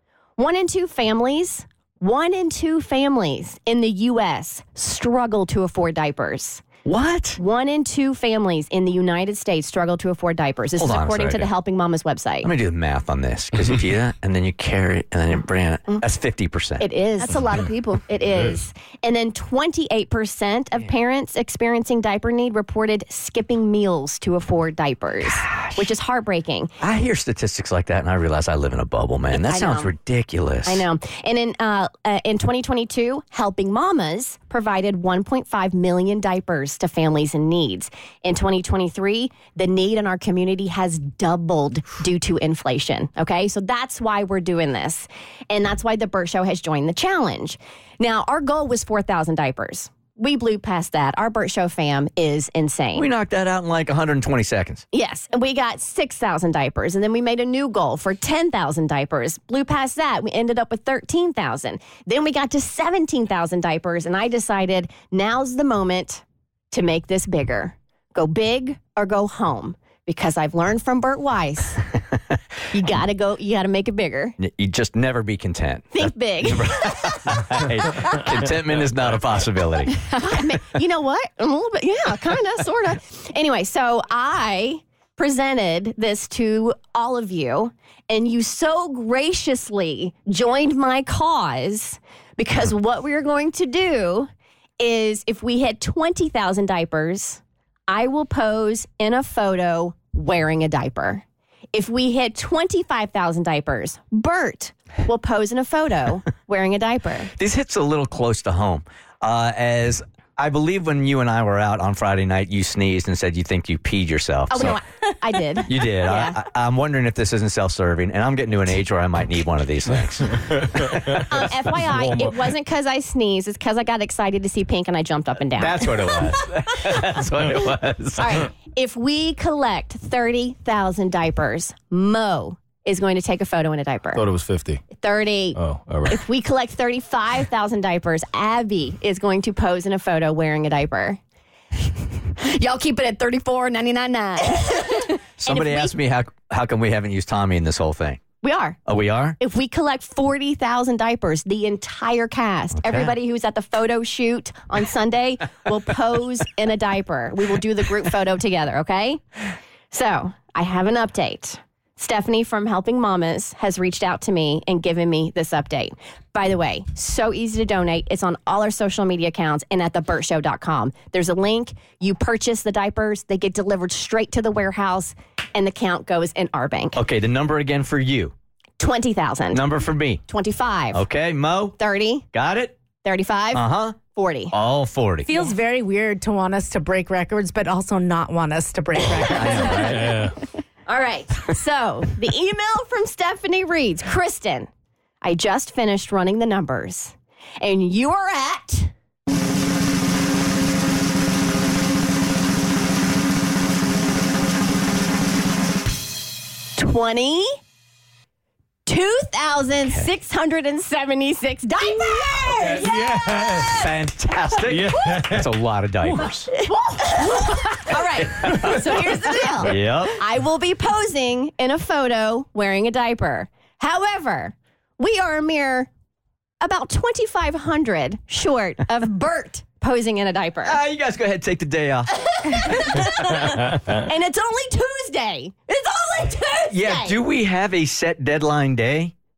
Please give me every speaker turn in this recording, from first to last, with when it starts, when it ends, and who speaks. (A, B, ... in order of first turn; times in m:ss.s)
0:00.4-0:06.6 A
0:06.8-0:07.4 B
0:07.4-0:12.5 A
0:10.8-0:11.5 B
0:12.4-0:16.8 B
0:16.8-0:26.7 A
0:26.8-0:30.8 B
0:29.3-0:29.9 A
0:30.6-0:53.1 A
0:53.0-0:54.8 B
0:54.9-1:11.9 A
1:12.7-1:14.4 A
1:14.4-1:20.0 B
1:15.9-1:18.3 A
1:19.9-1:34.3 A
1:34.8-1:47.3 A
1:47.4-1:54.8 B
1:54.5-1:56.4 A
1:55.6-2:01.2 B
2:01.1-2:06.8 A
2:05.6-2:08.5 B
2:08.2-2:14.2 A
2:14.1-2:14.8 C
2:14.9-2:21.2 A
2:15.6-2:16.2 C
2:22.2-2:25.9 A
2:25.4-2:28.2 B
2:28.4-2:28.8 A
2:28.8-2:29.4 B
2:29.4-2:39.2 A
2:32.8-2:33.1 B
2:39.9-2:57.0 A
2:56.9-2:58.3 B
2:58.8-2:59.6 A
2:59.5-3:00.2 B
3:00.3-3:01.0 A
3:00.9-3:01.8 B
3:01.8-3:02.2 A
3:02.3-3:02.8 B
3:03.0-3:04.5 A
3:03.5-3:04.0 B
3:04.5-3:05.3 B
3:05.2-3:10.1 D
3:09.2-3:10.3 B
3:09.4-3:10.1 A
3:10.9-3:14.7 A
3:15.2-3:18.9 A
3:26.8-3:27.5 A
3:28.8-3:33.0 A
3:29.8-3:30.1 B
3:32.6-3:33.9 C
3:32.6-3:33.1 D
3:33.6-3:36.5 B
3:34.7-3:35.4 C
3:36.7-3:37.8 D
3:36.7-3:45.9 A
3:38.2-3:38.8 B
3:38.5-3:39.1 D
3:39.6-3:40.2 B
3:46.6-3:50.8 A
3:50.6-3:52.6 B
3:52.3-3:57.2 A
3:56.7-3:59.1 B